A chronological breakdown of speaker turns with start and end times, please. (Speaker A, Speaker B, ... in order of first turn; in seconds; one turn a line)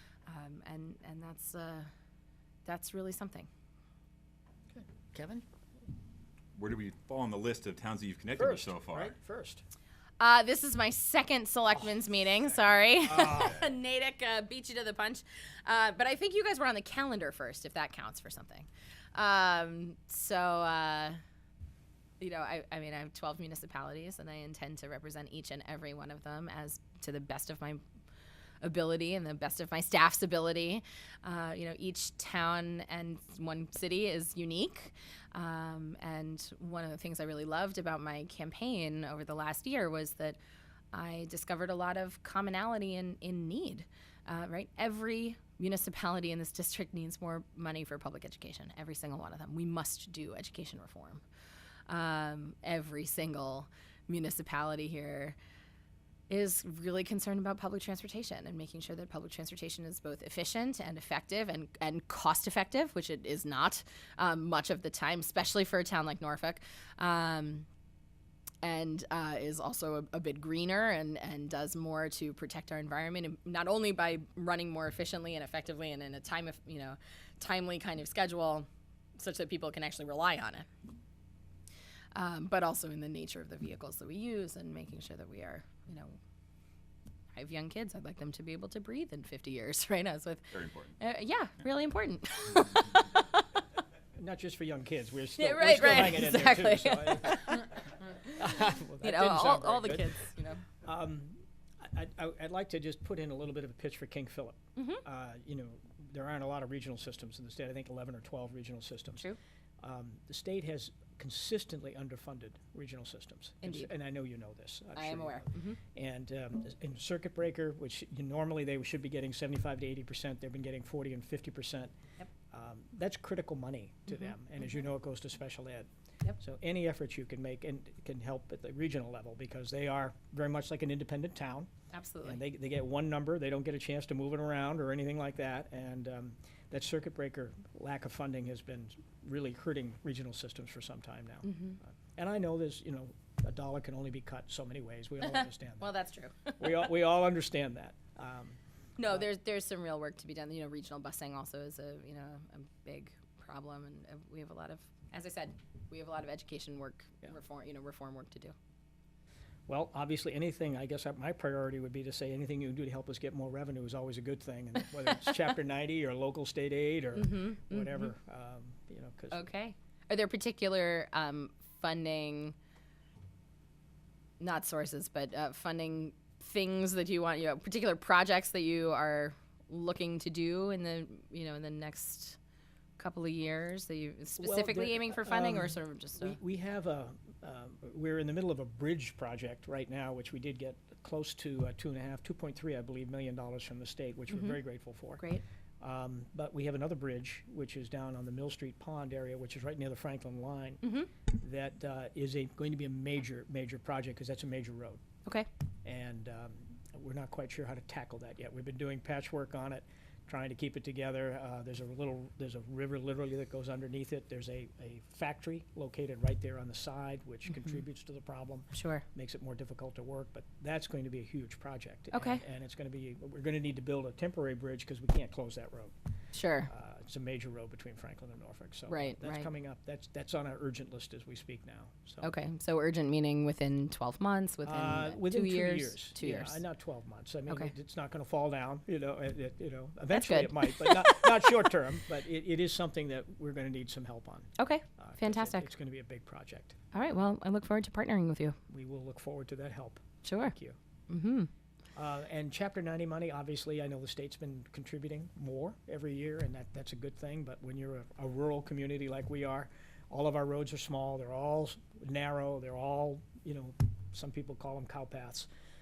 Speaker A: 0.3-1.9
Speaker A: 2.6-3.5
Speaker B: 4.7-5.4
Speaker C: 6.5-9.2
Speaker B: 8.4-9.6
Speaker A: 10.2-21.2
Speaker B: 13.1-13.6
Speaker A: 22.2-27.8
Speaker A: 28.6-40.4
Speaker A: 40.9-51.2
Speaker A: 51.9-55.4
Speaker A: 56.3-67.7
Speaker A: 68.6-78.7
Speaker A: 79.2-80.7
Speaker A: 82.2-86.2
Speaker A: 87.4-93.3
Speaker C: 90.5-91.0
Speaker B: 94.2-97.6
Speaker A: 95.4-97.8
Speaker B: 98.2-100.1
Speaker A: 99.0-100.6
Speaker B: 100.8-109.3
Speaker A: 104.8-105.0
Speaker B: 109.8-121.9
Speaker A: 113.6-113.9
Speaker A: 115.0-115.8
Speaker B: 122.5-131.7
Speaker A: 124.1-124.3
Speaker A: 131.9-132.4
Speaker B: 132.2-145.9
Speaker A: 141.4-141.8
Speaker A: 145.2-146.9
Speaker B: 146.6-148.6
Speaker A: 149.0-158.5
Speaker B: 159.7-169.5
Speaker A: 167.2-168.1
Speaker A: 169.3-172.6
Speaker A: 174.4-182.4
Speaker A: 183.0-186.4
Speaker B: 184.4-195.3
Speaker A: 194.3-194.6
Speaker B: 195.8-205.0
Speaker A: 200.8-201.1
Speaker B: 205.8-225.9
Speaker A: 217.5-217.8
Speaker A: 218.7-219.0
Speaker A: 222.1-222.4
Speaker A: 226.3-226.7
Speaker B: 226.7-232.3
Speaker A: 228.9-229.5
Speaker A: 232.2-236.6
Speaker B: 234.7-246.8
Speaker A: 240.1-241.7
Speaker A: 244.6-245.7
Speaker A: 246.9-248.6
Speaker B: 248.7-250.8
Speaker A: 250.2-250.5
Speaker A: 251.1-251.5
Speaker B: 252.0-265.5